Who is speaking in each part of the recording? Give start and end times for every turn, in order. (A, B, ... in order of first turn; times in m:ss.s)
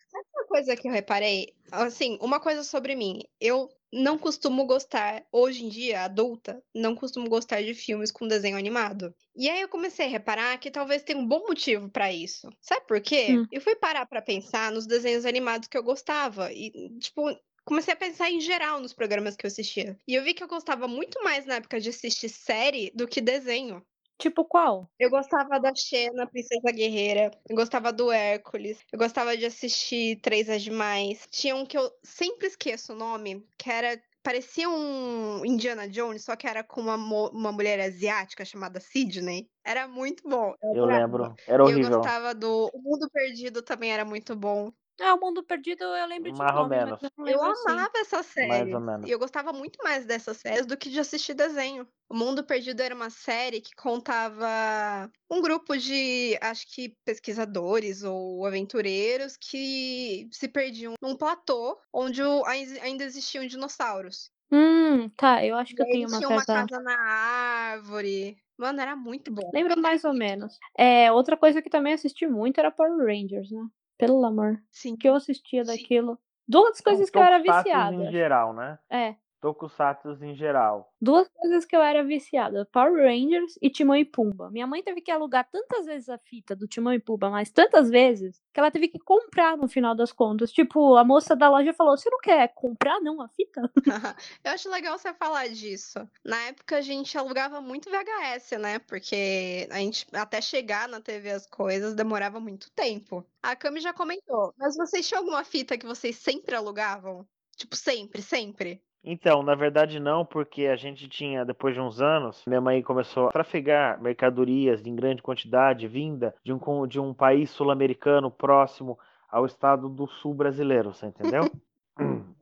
0:00.1-0:23.8 A
0:24.2-0:24.9 B
0:25.0-0:44.8 A
0:40.7-0:42.1 C
0:45.0-0:47.9 B
0:46.2-0:47.0 C
0:47.2-1:04.3 A
0:48.4-0:49.1 C
1:04.5-1:06.7 B
1:05.7-1:09.6 A
1:09.5-1:18.2 B
1:14.8-1:15.8 A
1:16.9-1:18.8 C
1:18.9-1:19.2 B
1:19.4-1:20.9 C
1:21.0-1:33.7 B
1:33.9-1:48.8 A
1:49.0-2:02.3 C